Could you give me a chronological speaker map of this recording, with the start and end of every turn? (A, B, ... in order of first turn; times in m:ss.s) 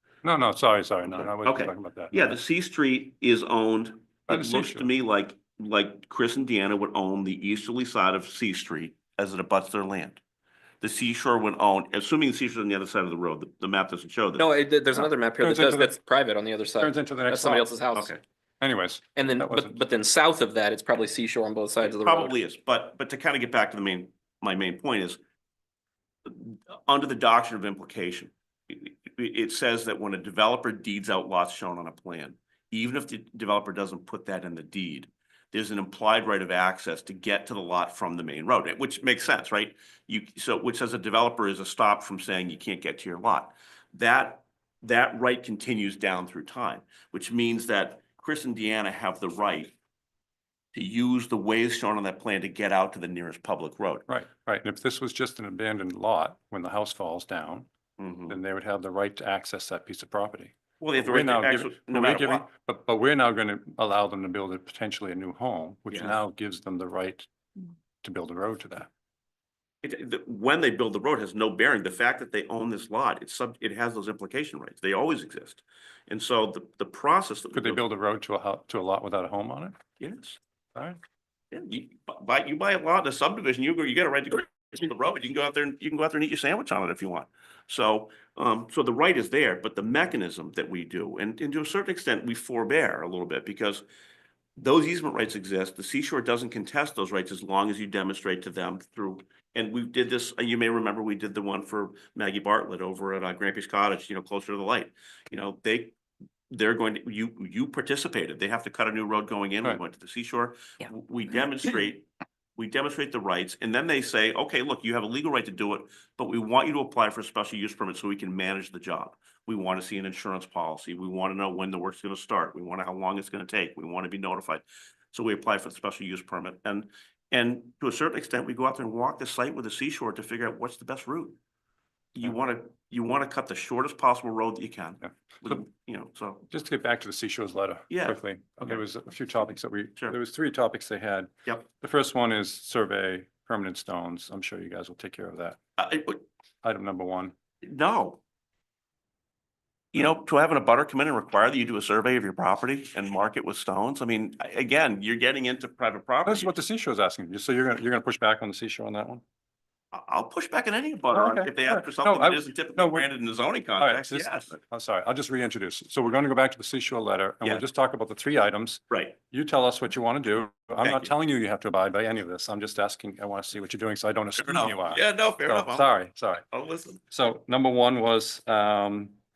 0:00.2-0:02.4 A
0:01.4-0:10.2 B
0:04.3-0:04.9 A
0:10.8-0:14.5 B
0:14.4-0:18.1 C
0:14.9-0:16.0 A
0:16.8-0:17.7 A
0:17.9-0:18.2 B
0:18.6-0:19.8 A
0:19.2-0:22.4 C
0:21.8-0:25.2 B
0:26.3-0:49.7 B
0:50.8-0:54.1 B
0:54.1-0:57.7 A
0:58.0-0:58.4 B
0:58.3-1:07.3 A
1:00.8-1:02.5 B
1:08.0-1:08.9 A
1:09.8-1:17.8 B
1:17.6-1:19.8 A
1:20.0-1:20.4 B
1:21.5-1:33.8 B
1:34.6-1:46.0 B
1:46.5-2:11.4 B
2:12.2-2:16.5 B
2:15.0-2:15.5 A
2:16.5-2:25.6 A
2:17.9-2:18.8 B
2:25.8-2:26.2 B
2:26.6-2:27.3 A
2:27.6-2:28.2 B
2:29.9-2:36.5 B
2:36.3-2:39.2 A
2:39.9-2:44.6 B
2:41.1-2:43.1 A
2:43.8-2:56.4 A
2:48.9-2:49.2 B
2:50.8-2:51.1 B
2:54.4-2:55.9 B
2:56.5-2:57.0 B
2:57.1-2:59.1 A